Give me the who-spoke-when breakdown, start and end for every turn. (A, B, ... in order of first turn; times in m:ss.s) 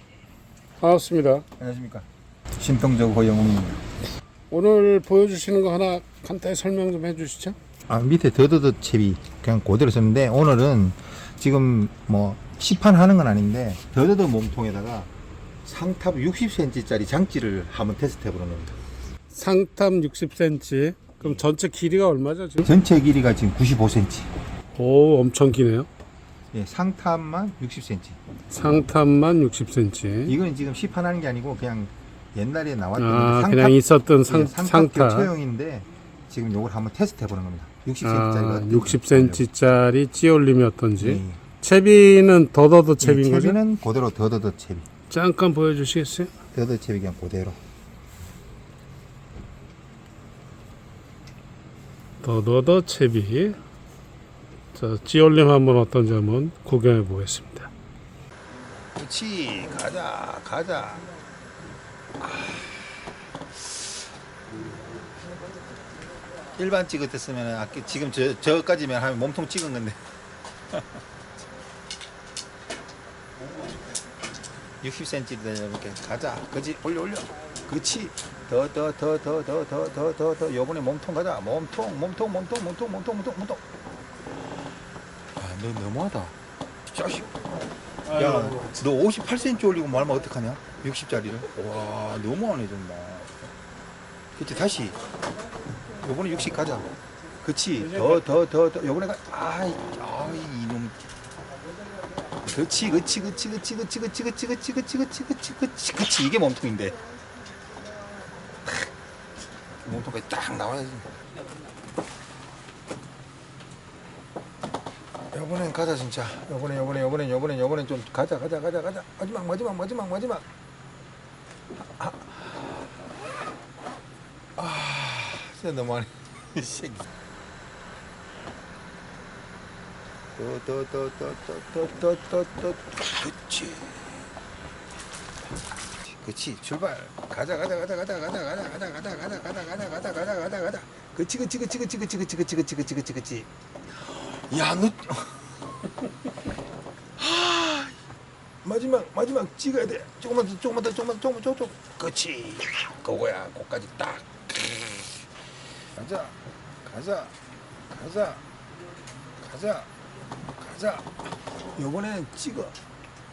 0:00.8-0:01.5 A
0:01.6-0:03.8 B
0:04.5-0:07.6 A
0:07.9-0:15.1 B
0:15.6-0:18.7 B
0:19.3-0:22.8 A
0:21.2-0:21.5 B
0:22.6-0:24.3 B
0:24.8-0:25.9 A
0:26.5-0:28.2 B
0:28.5-0:30.4 A
0:30.3-0:39.5 B
0:33.0-0:35.3 A
0:38.0-0:43.6 A
0:41.0-0:41.4 B
0:43.0-0:44.9 B
0:45.1-0:46.3 A
0:46.5-0:47.6 B
0:52.2-0:53.6 A
0:54.8-0:57.7 A
0:59.0-1:01.1 B
1:02.2-1:02.9 B
1:06.6-1:10.0 B
1:14.8-1:23.6 B
1:25.4-1:26.4 B
1:26.9-1:27.3 B
1:28.1-1:28.8 A
1:28.1-1:33.3 B
1:34.4-1:35.0 B
1:36.0-1:36.9 B
1:37.4-1:41.0 B
1:37.8-1:38.3 A
1:42.4-1:47.0 B
1:49.8-1:51.1 B
1:55.3-2:00.4 B
2:02.0-2:02.7 B
2:04.6-2:07.1 B
2:10.4-2:14.2 B
2:16.0-2:25.6 B
2:27.2-2:28.0 B
2:28.6-2:35.0 B
2:36.0-2:37.3 B
2:37.9-2:38.4 B
2:39.4-2:39.9 B
2:40.6-2:41.1 B
2:41.8-2:42.8 B